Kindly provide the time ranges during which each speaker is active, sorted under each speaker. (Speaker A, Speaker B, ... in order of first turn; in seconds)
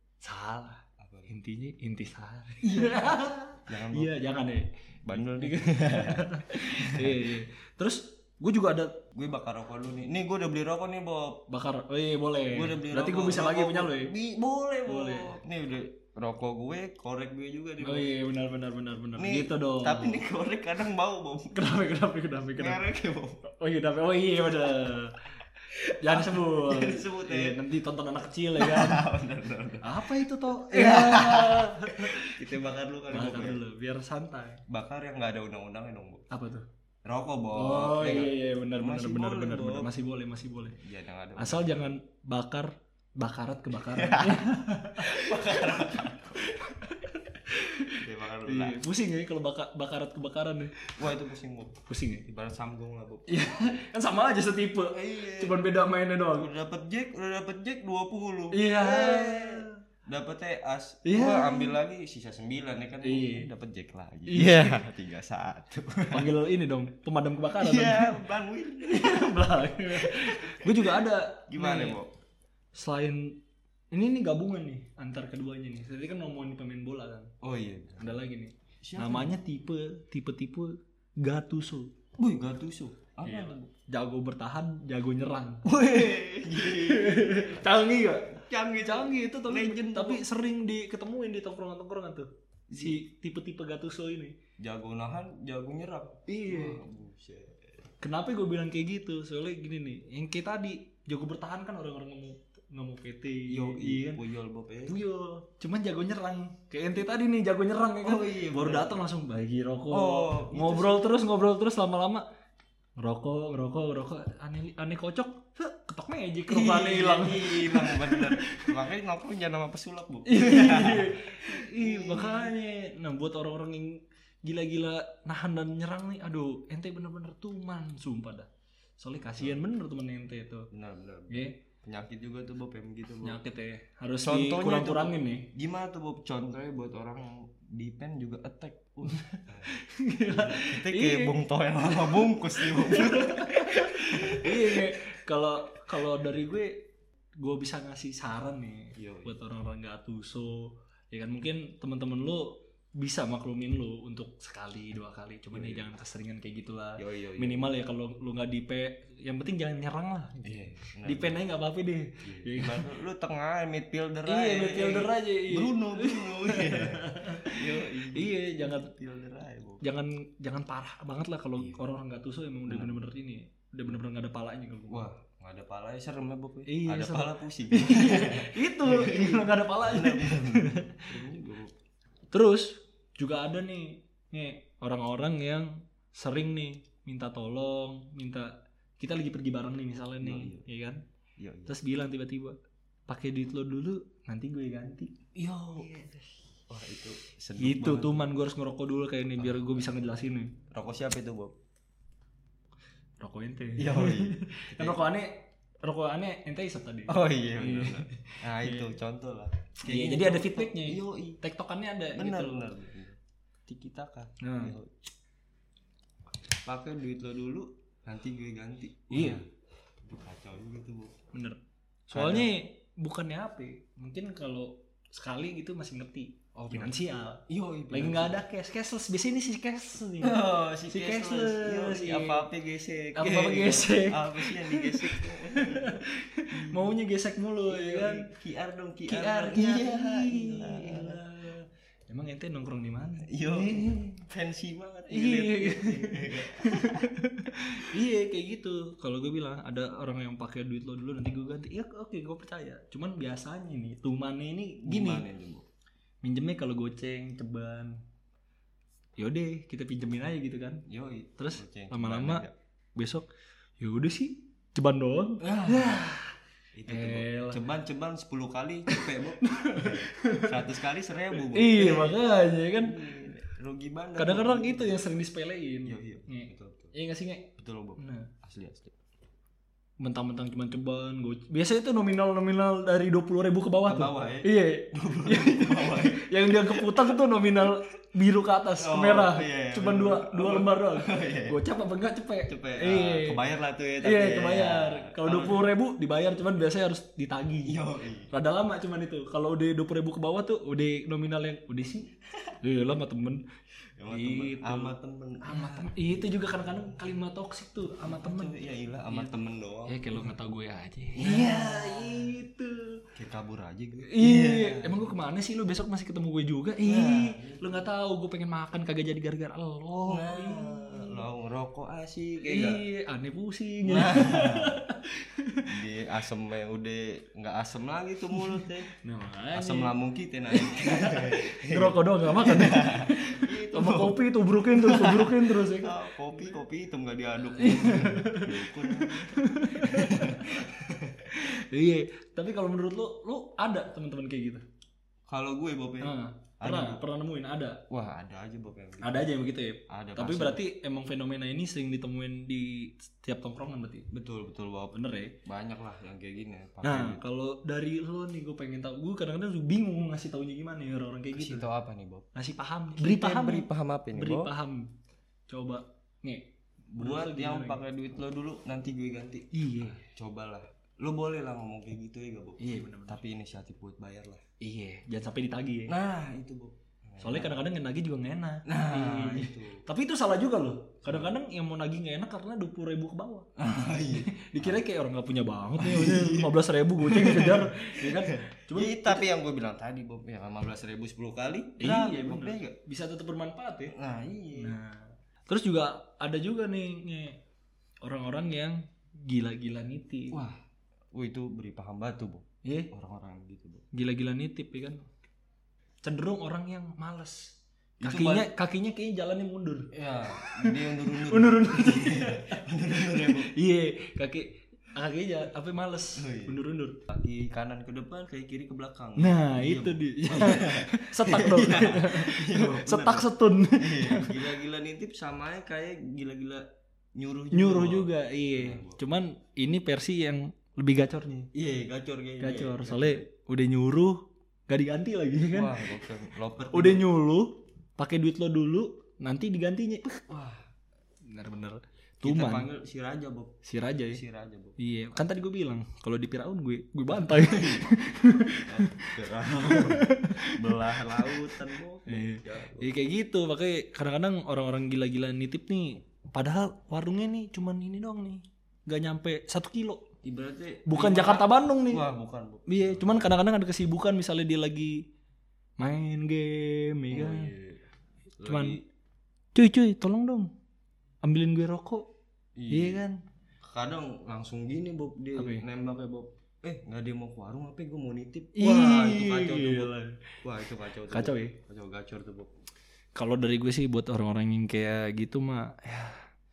Speaker A: 0.2-9.0, 11.5-14.1, 14.9-15.4, 17.8-20.2, 21.5-22.8, 23.4-29.1, 29.8-32.5, 33.1-34.6, 36.3-36.6, 37.5-40.8, 41.4-50.9, 51.9-52.2, 53.3-56.5, 58.5-59.8, 61.0-61.8, 63.0-63.5, 64.3-64.8, 66.1-68.2, 68.8-72.0, 72.7-73.4, 73.9-77.3, 78.0-81.9, 83.2-85.8, 86.5-94.4, 96.3-96.8, 98.0-104.2, 104.9-112.2, 113.0-118.8, 120.2-128.5, 129.0-130.7, 131.3-131.6, 133.2-135.5, 139.1-141.3, 142.6-146.9, 147.4-162.9, 164.3-168.9, 169.8-175.1, 176.7-181.1, 182.3-191.0, 191.7-192.6, 193.1-195.1, 195.8-196.2, 197.6-200.6, 203.2-208.9, 209.8-212.7, 214.4-214.8, 219.1-219.4, 221.3-232.4, 233.2-238.3, 239.1-244.3, 245.1-255.2, 256.2-258.0, 259.2-260.9, 261.4-262.4, 263.0-263.3, 263.8-266.4, 266.9-267.6, 268.9-270.5, 271.4-273.0, 274.2-278.3, 280.0-293.4, 294.0-297.8, 298.3-303.4, 304.1-308.6, 309.9-313.0, 314.0-321.2, 322.4-325.7, 328.4-329.9, 330.5-336.0, 337.6-340.7, 341.3-344.6, 346.0-347.8, 349.0-354.1, 354.9-355.4, 356.8-361.7, 362.4-364.9, 365.5-366.5, 367.0-367.8, 369.5-370.1, 372.6-373.2, 374.6-375.9, 377.2-383.5, 384.1-389.3, 391.8-393.9, 394.6-397.4, 398.0-400.4, 402.6-402.9, 403.9-405.0, 406.0-417.0, 419.2-424.5, 427.5-431.5, 432.4-435.9, 436.7-440.2, 441.3-442.7, 443.7-444.2, 444.8-460.1, 460.9-462.0, 462.7-465.0, 465.8-467.5, 468.5-468.8, 469.6-470.5, 471.2-472.1, 472.7-473.2, 475.4-475.6, 478.6-480.2, 481.1-481.6, 483.2-486.2
Speaker B: 1.0-1.3, 2.6-4.1, 5.0-7.3, 9.1-11.4, 12.5-18.1, 19.2-21.8, 22.6-23.4, 26.0-27.6, 28.6-33.6, 34.7-36.3, 37.0-39.9, 40.7-41.9, 43.7-46.6, 48.0-48.9, 50.9-53.8, 54.9-55.7, 56.3-66.3, 67.6-72.1, 77.4-78.2, 78.8-79.4, 82.2-83.7, 85.7-87.7, 88.4-90.2, 92.7-93.0, 94.6-97.6, 103.5-105.0, 108.0-109.0, 109.9-111.0, 116.5-122.5, 130.7-133.4, 134.2-145.0, 149.0-149.4, 155.5-155.9, 157.0-157.7, 160.4-161.4, 162.2-169.8, 171.6-171.8, 172.7-173.1, 174.9-181.7, 190.2-190.7, 191.4-191.8, 195.3-195.9, 196.7-198.3, 199.4-199.7, 200.7-201.6, 203.8-205.0, 207.1-211.4, 212.2-215.0, 216.5-219.5, 220.0-221.2, 222.1-222.5, 226.6-228.4, 230.2-237.0, 237.7-241.2, 243.2-247.1, 254.8-255.7, 260.9-262.5, 265.4-266.1, 266.8-272.2, 272.8-275.0, 275.9-276.9, 277.6-279.0, 283.9-287.2, 288.8-291.6, 292.5-295.6, 297.7-298.3, 304.0-307.0, 308.0-310.3, 311.1-312.4, 313.1-315.1, 316.8-317.9, 320.1-322.8, 323.9-324.8, 325.6-328.9, 329.5-341.3, 345.3-347.0, 347.9-349.3, 349.9-350.6, 354.1-357.2, 361.3-362.3, 363.0-364.5, 366.9-374.4, 375.9-377.6, 378.7-379.8, 381.1-381.3, 383.6-384.8, 385.8-392.8, 393.9-394.8, 400.3-400.6, 401.1-403.9, 408.0-408.5, 409.9-413.5, 416.2-429.0, 431.5-433.3, 435.5-437.1, 440.3-440.6, 442.2-444.8, 447.3-447.9, 448.7-452.9, 460.2-463.3, 467.1-467.8, 468.4-468.8, 472.6-473.0, 473.6-482.5